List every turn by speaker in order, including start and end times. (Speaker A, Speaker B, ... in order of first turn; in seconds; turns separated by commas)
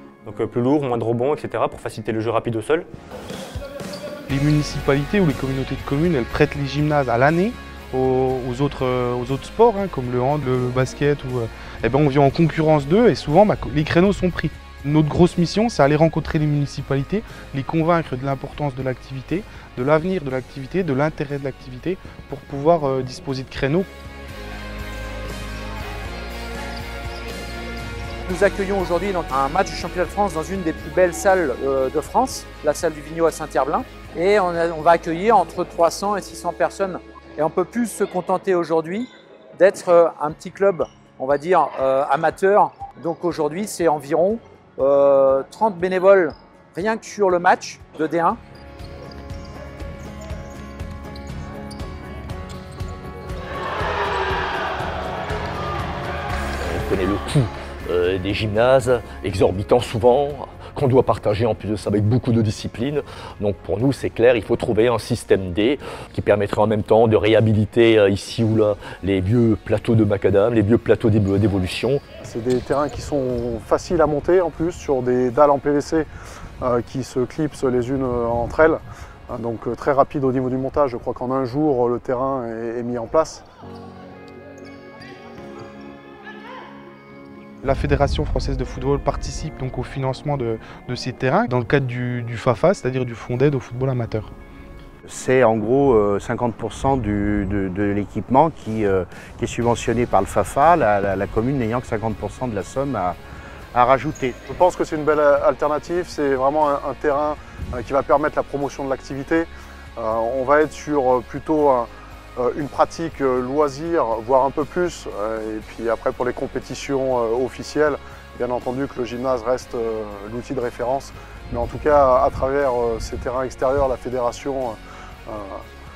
Speaker A: 0.2-2.9, Speaker B: 4.3-23.9, Speaker C: 28.2-48.4, Speaker D: 56.6-72.0, Speaker E: 72.2-76.1, Speaker E: 76.6-83.4, Speaker B: 87.6-94.3, Speaker F: 95.0-103.2, Speaker F: 103.7-104.4, Speaker E: 104.5-125.6